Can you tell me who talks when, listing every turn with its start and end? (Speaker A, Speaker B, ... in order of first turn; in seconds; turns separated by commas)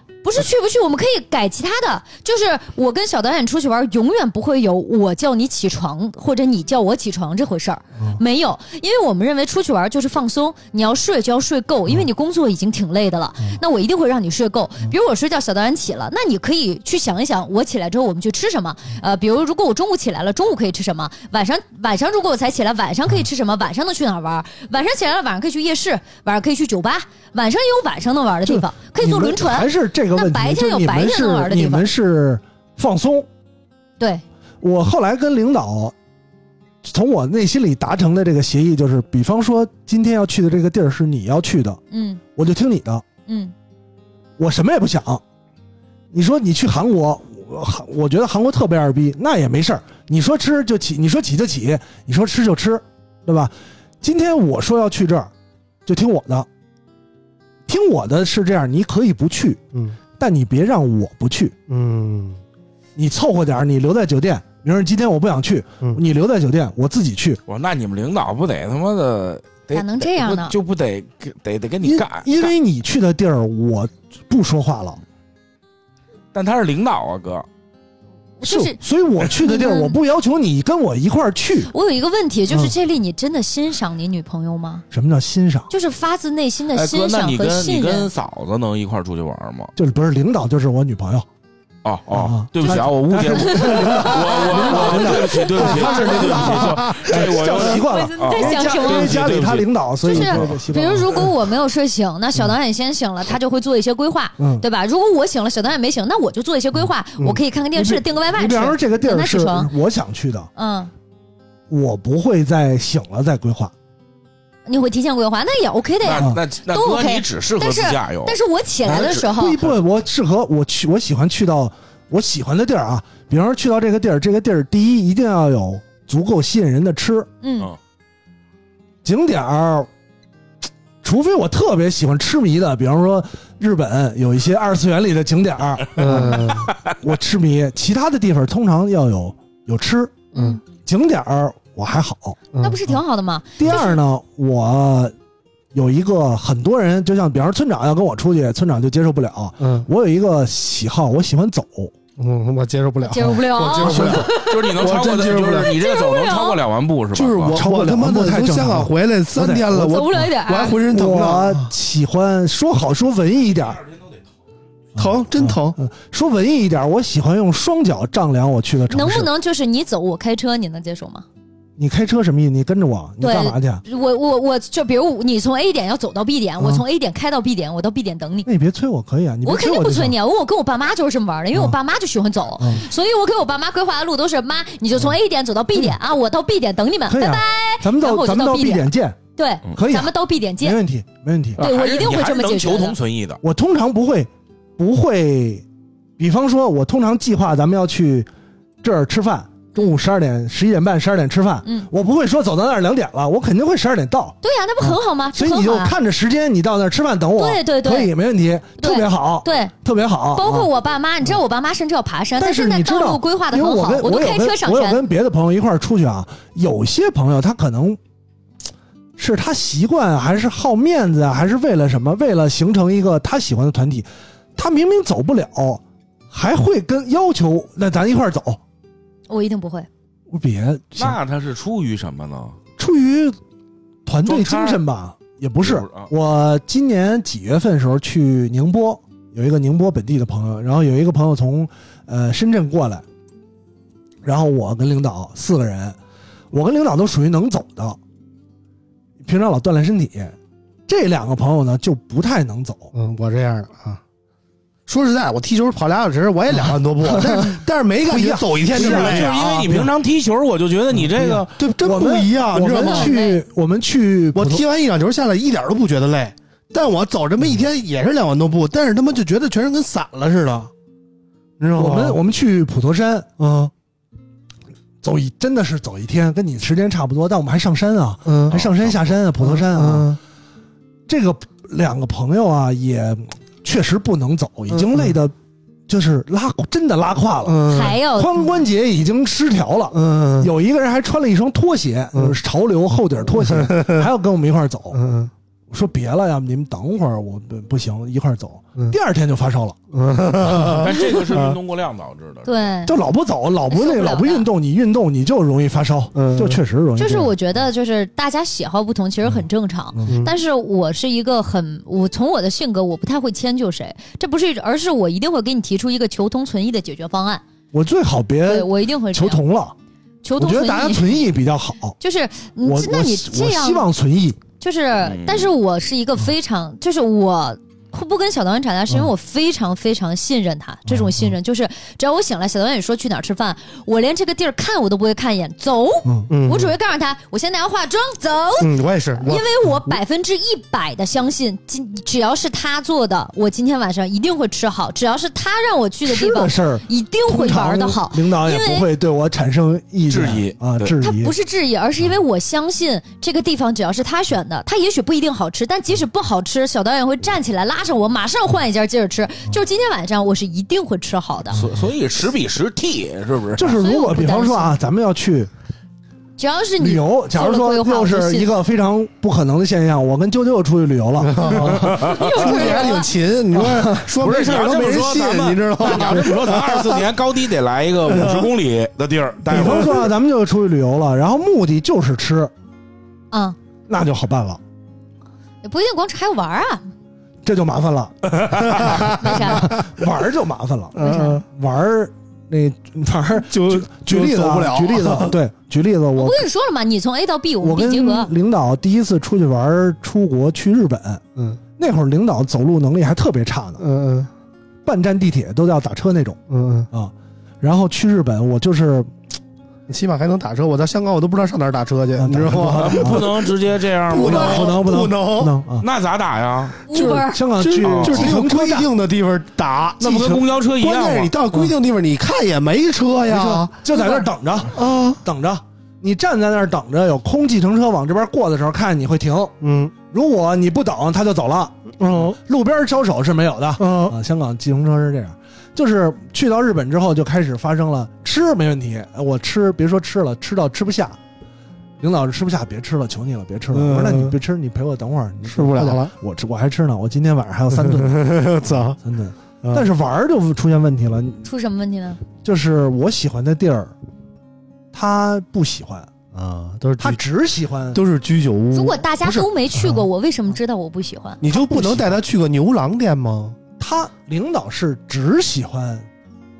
Speaker A: 0.2-31.9, Speaker B: 28.4-33.3, Speaker A: 34.0-34.2, Speaker B: 34.6-35.9, Speaker B: 36.8-41.8, Speaker A: 41.9-42.2, Speaker B: 42.4-43.0, Speaker A: 43.3-43.5, Speaker B: 44.4-45.2, Speaker B: 46.1-55.3, Speaker B: 55.9-56.5, Speaker B: 57.7-59.6, Speaker B: 60.2-61.5, Speaker C: 61.7-62.4, Speaker B: 63.0-67.4, Speaker D: 67.5-72.5, Speaker A: 69.7-70.6, Speaker B: 71.8-75.0, Speaker D: 76.3-77.5, Speaker A: 78.4-78.8, Speaker B: 78.4-81.7, Speaker A: 79.4-80.0, Speaker A: 81.7-84.8, Speaker B: 84.9-85.7, Speaker A: 85.7-88.1, Speaker D: 86.7-89.7, Speaker B: 89.8-91.3, Speaker D: 91.8-100.6, Speaker B: 92.1-101.3, Speaker A: 93.3-96.4, Speaker C: 96.5-97.2, Speaker A: 97.8-99.3, Speaker A: 100.0-109.7, Speaker B: 104.4-104.6, Speaker B: 107.2-110.5, Speaker A: 110.5-110.9, Speaker B: 111.7-113.7, Speaker A: 114.7-119.6, Speaker D: 116.0-118.4, Speaker B: 118.9-127.3, Speaker A: 127.4-127.7, Speaker B: 129.0-129.9, Speaker B: 131.0-140.2, Speaker C: 135.9-136.7, Speaker D: 136.1-136.9, Speaker A: 140.3-140.6, Speaker B: 140.8-142.4, Speaker C: 142.5-142.8, Speaker A: 142.6-144.0, Speaker B: 143.6-145.1, Speaker B: 145.7-151.9, Speaker C: 149.6-149.9, Speaker C: 152.2-155.7, Speaker A: 153.0-154.7, Speaker D: 153.8-157.6, Speaker A: 155.5-156.6, Speaker C: 157.1-161.7, Speaker B: 157.5-160.3, Speaker A: 159.7-160.8, Speaker B: 160.8-163.8, Speaker C: 164.9-165.8, Speaker B: 165.0-169.3, Speaker A: 168.9-171.2, Speaker B: 171.8-173.8, Speaker A: 173.2-178.5, Speaker B: 178.4-180.2, Speaker A: 179.4-190.8, Speaker B: 182.6-182.8, Speaker B: 187.1-189.2, Speaker B: 189.8-191.6, Speaker D: 191.6-193.4, Speaker A: 191.6-193.0, Speaker B: 193.4-195.6, Speaker B: 196.2-198.3, Speaker B: 198.8-210.7, Speaker A: 201.6-201.9, Speaker A: 204.4-205.9, Speaker A: 207.3-208.1, Speaker A: 208.8-209.7, Speaker A: 210.3-215.0, Speaker B: 212.4-218.0, Speaker B: 219.2-228.6, Speaker A: 229.3-229.9, Speaker B: 230.3-231.2, Speaker D: 231.0-232.6, Speaker B: 232.8-233.4, Speaker B: 234.1-243.0, Speaker D: 234.2-234.8, Speaker D: 235.6-236.1, Speaker B: 244.2-246.0, Speaker B: 246.5-248.0, Speaker B: 249.2-250.3, Speaker B: 250.9-252.9, Speaker C: 252.9-254.0, Speaker C: 254.9-259.4, Speaker B: 256.5-259.9, Speaker D: 258.7-261.6, Speaker B: 260.9-264.6, Speaker C: 261.6-263.1, Speaker A: 262.7-263.4, Speaker C: 264.3-270.7, Speaker C: 271.6-272.2, Speaker B: 271.7-273.3, Speaker C: 273.4-273.7, Speaker B: 275.0-280.2, Speaker C: 278.2-278.6, Speaker D: 278.5-279.0, Speaker C: 279.4-280.2, Speaker B: 281.1-285.3, Speaker C: 284.7-285.1, Speaker B: 285.9-295.0, Speaker C: 287.4-288.0, Speaker A: 287.7-288.6, Speaker C: 289.9-290.5, Speaker C: 293.4-294.1, Speaker C: 294.9-295.3, Speaker B: 295.7-299.8, Speaker C: 299.9-301.6, Speaker B: 300.4-300.8, Speaker D: 300.7-302.5, Speaker A: 302.4-302.9, Speaker B: 302.9-307.3, Speaker A: 303.7-304.5, Speaker C: 306.1-306.6, Speaker A: 307.0-317.4, Speaker C: 310.1-310.3, Speaker B: 317.7-319.7, Speaker A: 318.4-319.4, Speaker A: 320.2-321.3, Speaker B: 320.4-322.0, Speaker A: 322.0-323.9, Speaker B: 322.6-324.4, Speaker A: 324.6-348.9, Speaker D: 325.0-325.5, Speaker B: 330.9-331.3, Speaker C: 336.3-336.7, Speaker C: 338.6-339.5, Speaker B: 346.1-351.3, Speaker D: 350.1-350.9, Speaker A: 351.0-361.6, Speaker D: 361.5-363.8, Speaker B: 363.6-365.5, Speaker A: 363.7-364.8, Speaker A: 366.4-368.5, Speaker B: 366.8-372.0, Speaker C: 371.2-377.1, Speaker A: 371.9-373.1, Speaker D: 372.0-372.5, Speaker B: 373.5-374.1, Speaker D: 374.2-380.1, Speaker C: 378.1-378.5, Speaker B: 379.4-382.5, Speaker A: 383.3-383.6, Speaker B: 383.9-384.6, Speaker A: 385.6-386.8, Speaker B: 387.4-396.4, Speaker A: 389.2-389.7, Speaker C: 390.9-391.4, Speaker A: 390.9-391.4, Speaker C: 393.4-395.4, Speaker A: 396.1-398.3, Speaker B: 397.6-401.2, Speaker B: 401.8-403.8, Speaker C: 403.8-404.3, Speaker B: 404.8-406.4, Speaker C: 406.5-406.9, Speaker B: 406.9-409.1, Speaker C: 409.9-413.3, Speaker B: 412.2-413.4, Speaker D: 412.8-414.8, Speaker C: 414.1-415.6, Speaker B: 414.1-415.9, Speaker D: 415.8-416.8, Speaker A: 416.9-417.4, Speaker C: 416.9-424.2, Speaker B: 417.2-418.9, Speaker D: 417.8-418.3, Speaker D: 420.0-421.3, Speaker B: 420.0-420.4, Speaker B: 423.3-429.5, Speaker A: 423.9-424.3, Speaker C: 424.7-425.2, Speaker C: 429.6-429.9, Speaker B: 430.1-441.2, Speaker C: 432.0-432.4, Speaker C: 433.8-434.2, Speaker B: 442.0-448.5, Speaker C: 443.7-444.4, Speaker C: 445.4-446.1, Speaker C: 447.7-449.0, Speaker B: 449.0-451.4, Speaker C: 449.6-449.9, Speaker A: 451.4-452.2, Speaker B: 452.4-453.9, Speaker B: 454.9-456.1, Speaker C: 456.3-457.2, Speaker B: 457.0-458.0, Speaker C: 457.9-459.1, Speaker A: 458.7-461.4, Speaker B: 459.2-460.0, Speaker C: 461.4-463.6, Speaker B: 461.5-462.2, Speaker B: 463.8-466.1